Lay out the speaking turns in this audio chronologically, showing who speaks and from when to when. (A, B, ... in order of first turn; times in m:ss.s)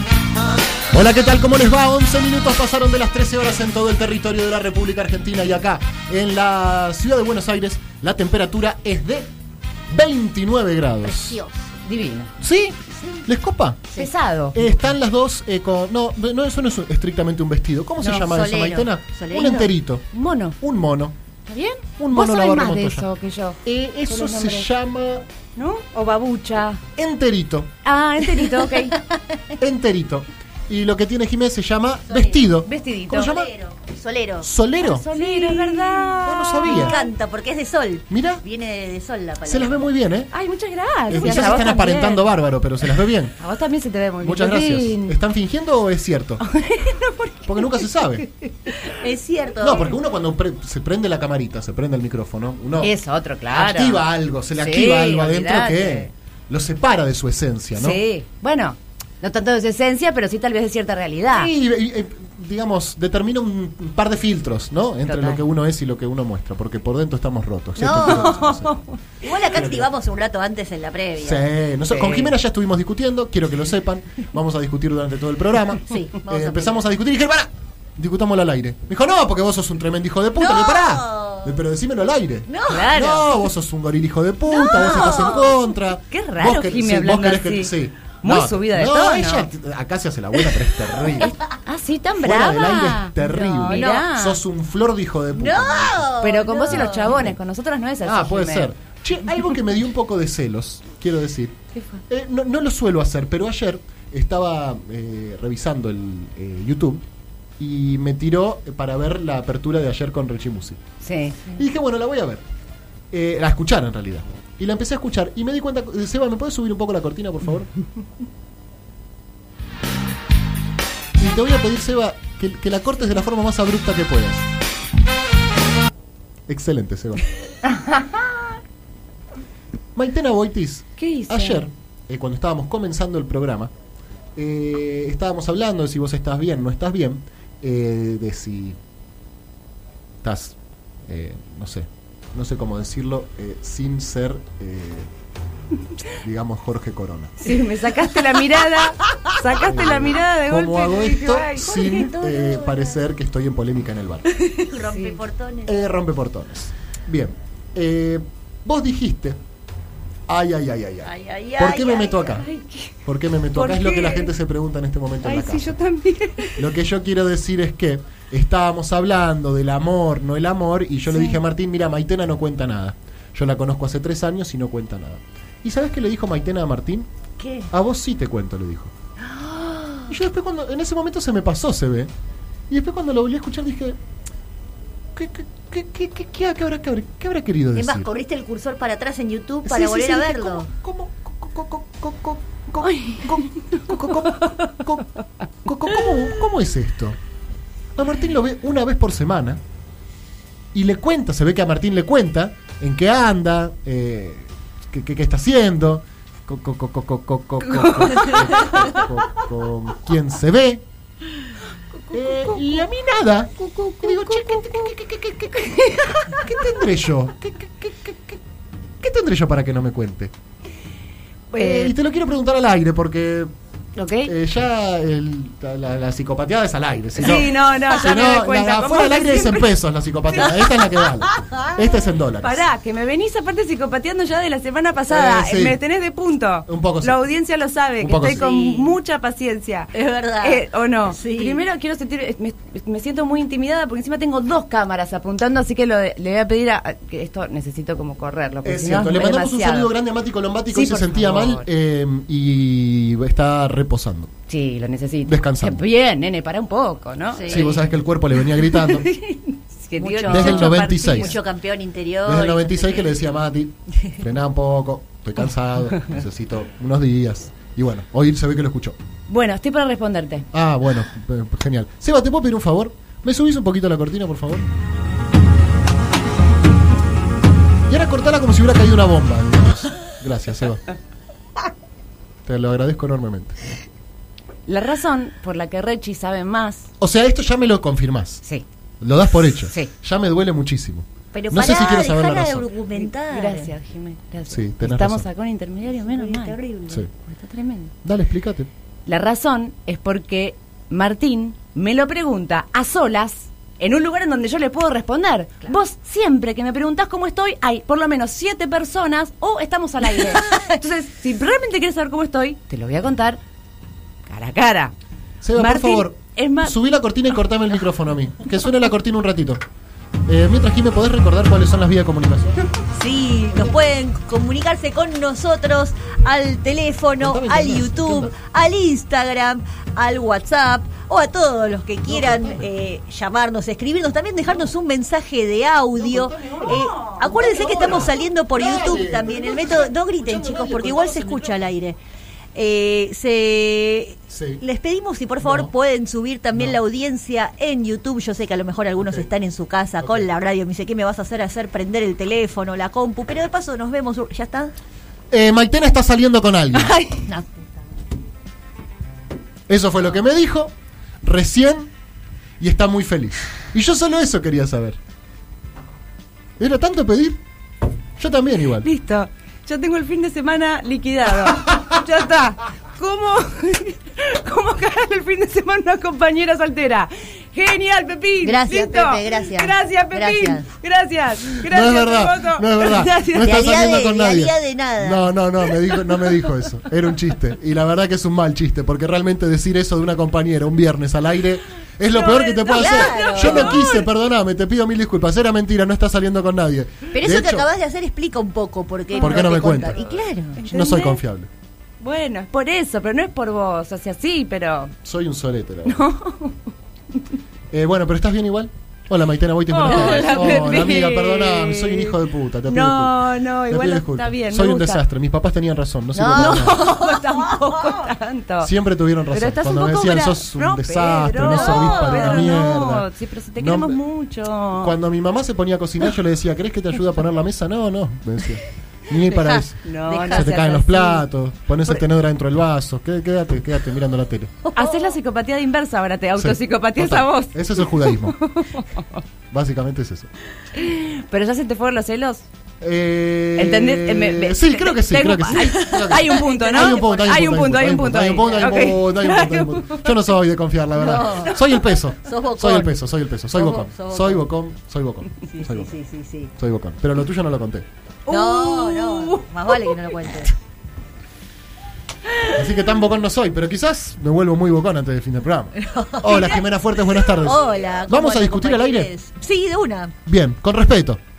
0:00.9-0:09.3 A
0:09.9-0:11.4 A
0:11.1-0:11.7 B
0:11.8-0:12.3 C
0:12.4-0:13.9 A
0:13.9-0:14.7 C
0:14.5-0:20.1 A
0:18.0-0:19.7 B
0:20.1-0:20.6 C
0:20.6-0:21.1 A
0:21.5-0:24.7 C
0:22.0-0:23.1 A
0:23.6-0:25.2 A
0:25.6-0:26.8 C
0:27.0-0:27.7 A
0:27.8-0:29.0 C
0:29.6-0:33.5 A
0:32.1-0:32.5 B
0:32.6-0:33.4 C
0:33.1-0:34.5 B
0:34.4-0:35.1 A
0:34.8-0:37.1 C
0:35.1-0:39.8 B
0:36.2-0:37.0 A
0:38.1-0:38.4 A
0:39.4-0:40.3 A
0:40.3-0:42.3 C
0:41.1-0:43.4 A
0:41.2-0:41.6 B
0:43.4-0:45.2 C
0:44.2-0:46.4 A
0:46.4-0:49.0 C
0:47.4-0:48.2 A
0:48.9-0:50.0 B
0:49.6-0:52.9 A
0:52.8-0:56.1 C
0:53.5-0:58.0 A
0:57.8-1:01.5 C
1:01.3-1:08.7 A
1:05.0-1:05.4 C
1:07.8-1:08.7 B
1:07.9-1:09.0 C
1:09.2-1:11.4 B
1:09.4-1:09.9 A
1:11.2-1:31.4 A
1:11.9-1:12.3 C
1:15.8-1:16.8 B
1:20.4-1:21.6 B
1:22.5-1:23.2 B
1:22.7-1:23.3 C
1:24.5-1:25.6 B
1:24.9-1:25.4 C
1:26.1-1:29.5 C
1:31.2-1:34.4 C
1:32.2-1:36.1 A
1:33.6-1:34.1 B
1:35.3-1:37.3 B
1:36.2-1:38.7 C
1:36.6-1:37.4 A
1:38.0-1:41.6 A
1:41.7-1:42.0 C
1:42.1-1:47.0 A
1:47.6-1:50.8 A
1:51.0-1:51.5 C
1:51.4-1:52.4 A
1:53.1-1:57.7 A
2:01.2-2:04.5 A
2:06.5-2:07.2 A
2:07.6-2:08.5 C
2:09.9-2:13.7 A
2:11.0-2:11.7 C
2:14.4-2:18.8 A
2:20.2-2:25.1 A
2:26.2-2:27.5 A
2:27.4-2:32.1 C
2:29.5-2:34.3 A
2:31.6-2:33.0 B
2:34.4-2:35.7 B
2:34.7-2:35.2 C
2:35.6-2:39.4 A
2:40.3-2:42.5 A
2:41.0-2:42.4 B
2:42.4-2:42.9 C
2:43.0-2:45.7 A
2:43.5-2:44.3 C
2:45.2-2:46.6 C
2:46.6-2:57.1 A
2:51.1-2:51.4 C
2:57.4-2:57.7 B
2:57.7-2:58.9 A
2:59.3-3:00.1 C
3:00.1-3:02.1 A
3:02.7-3:04.0 A
3:05.1-3:08.1 A
3:07.8-3:10.7 B
3:09.6-3:15.1 A
3:12.8-3:14.6 C
3:15.6-3:17.2 A
3:18.0-3:19.6 A
3:20.7-3:30.8 A
3:27.7-3:29.0 C
3:32.0-3:32.9 C
3:32.1-3:35.7 A
3:33.6-3:34.9 C
3:35.5-3:36.6 C
3:36.3-3:38.4 A
3:39.0-3:40.3 A
3:41.5-3:41.9 C
3:41.5-3:43.5 A
3:44.0-3:44.3 C
3:44.2-3:52.6 A
3:47.2-3:49.7 C
3:51.2-3:51.8 B
3:52.4-4:09.9 C
3:55.1-3:55.8 A
3:56.6-3:57.2 A
3:58.0-3:58.4 A
3:58.3-3:58.9 B
3:59.9-4:01.6 B
4:08.6-4:14.3 A
4:10.7-4:11.7 C
4:14.5-4:17.8 C
4:15.2-4:15.8 A
4:17.3-4:17.8 B
4:17.5-4:19.1 A
4:18.5-4:21.4 C
4:20.0-4:23.0 B
4:20.2-4:21.4 A
4:22.2-4:29.0 A
4:29.3-4:30.5 C
4:30.5-4:34.7 A
4:37.9-4:40.8 A
4:42.4-4:43.6 A
4:44.7-4:46.9 C
4:47.0-4:48.4 A
4:49.0-4:52.7 A
4:51.3-4:53.7 B
4:52.9-4:56.6 C
4:54.5-4:55.3 A
4:56.0-4:57.0 B
4:57.2-4:57.9 C
4:58.0-4:58.7 A
4:59.0-5:13.4 C
5:14.3-5:14.9 C
5:15.4-5:19.6 A
5:15.6-5:16.7 C
5:20.3-5:22.7 A
5:22.9-5:42.0 B
5:27.2-5:28.3 A
5:32.1-5:32.7 A
5:35.9-5:41.6 A
5:36.7-5:37.3 C
5:42.5-5:54.7 B
5:44.3-5:44.6 A
5:45.4-5:45.7 A
5:46.5-5:46.8 A
5:49.0-5:49.3 A
5:50.0-5:50.3 A
5:55.3-5:57.0 A
5:56.8-5:57.2 C
5:57.2-5:57.6 B
5:59.7-6:01.9 A
6:02.6-6:05.0 A
6:06.6-6:07.4 A
6:08.2-6:08.9 A
6:08.8-6:23.7 C
6:18.4-6:20.6 B
6:21.6-6:37.6 A
6:23.4-6:25.2 B
6:32.1-6:34.0 B
6:32.7-6:34.0 C
6:37.1-6:40.6 B
6:39.1-6:39.5 C
6:39.2-6:40.0 A
6:40.1-6:41.2 C
6:40.6-6:41.5 A
6:42.0-6:44.9 C
6:45.0-6:46.1 A
6:45.8-6:46.6 C
6:47.7-6:56.9 A
6:49.7-6:55.0 C
6:49.9-6:50.6 B
6:56.1-6:58.7 C
6:56.3-6:57.2 B
6:58.6-7:04.0 A
6:59.3-7:04.9 C
7:01.4-7:02.5 B
7:04.7-7:14.6 A
7:09.3-7:10.5 B
7:09.8-7:11.3 C
7:14.7-7:15.1 B
7:14.7-7:19.2 C
7:16.4-7:18.4 A
7:19.5-7:20.3 A
7:20.7-7:22.4 C
7:22.8-7:35.9 A
7:23.6-7:30.2 C
7:25.6-7:27.4 B
7:30.9-7:31.7 B
7:32.2-7:32.9 B
7:33.5-7:34.5 B
7:35.5-7:36.5 B
7:36.6-7:37.9 A
7:38.2-7:40.1 C
7:38.3-7:40.5 B
7:42.5-7:49.1 A
7:45.8-7:46.6 B
7:47.2-7:50.1 B
7:50.2-7:51.2 A